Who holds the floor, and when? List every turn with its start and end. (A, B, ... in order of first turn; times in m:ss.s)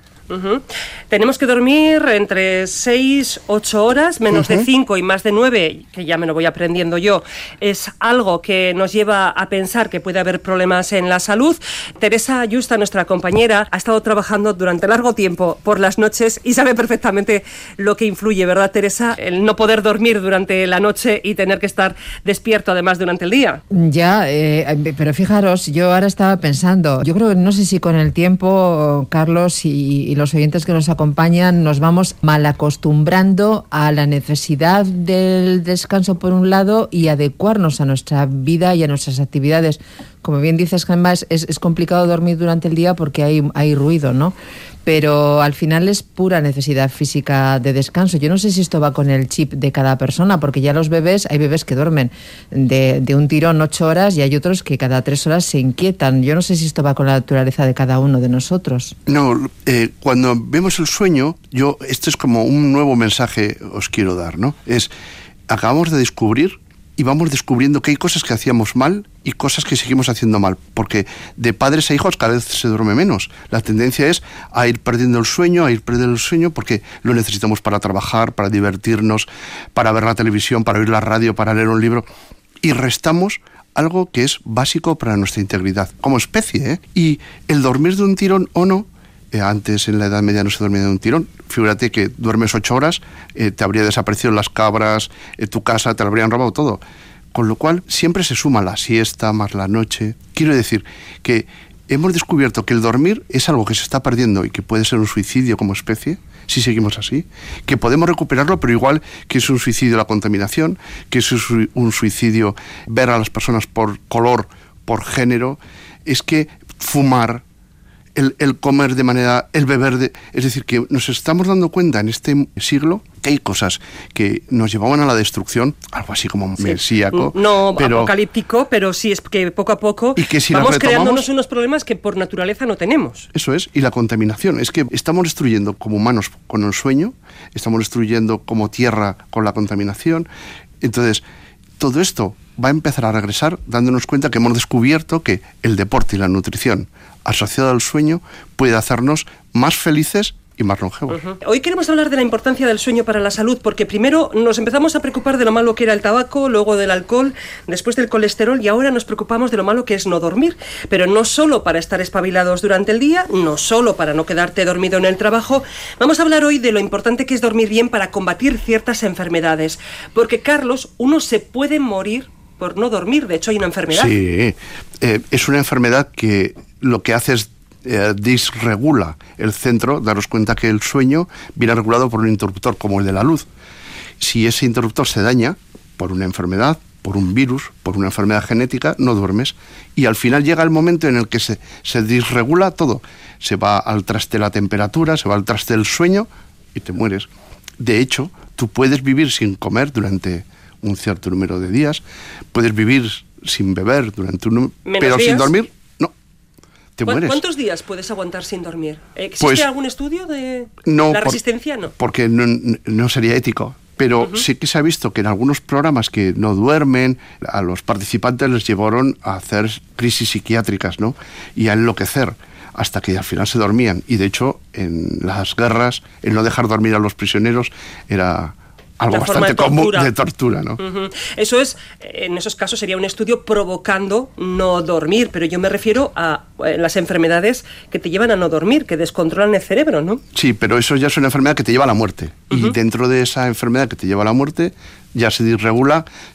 0:00.3-0:23.6 A
0:04.3-0:04.7 B
0:23.7-0:44.3 C
0:44.9-0:58.9 C
0:59.1-1:04.9 B
1:05.5-1:22.0 B
1:22.6-1:36.8 B
1:37.3-1:57.4 B
1:58.2-2:08.1 B
2:06.6-2:13.3 A
2:10.2-2:11.3 B
2:13.3-2:20.3 B
2:20.8-2:21.2 B
2:21.8-2:31.2 B
2:31.1-2:54.1 A
2:53.9-3:03.5 B
3:04.2-3:17.3 B
3:17.8-3:22.0 B
3:22.5-3:26.1 B
3:24.9-3:25.5 A
3:27.0-3:27.4 B
3:27.1-3:31.9 A
3:30.9-3:31.4 B
3:32.0-3:50.8 B
3:49.1-3:50.1 A
3:50.8-4:00.2 A
4:00.4-4:06.1 B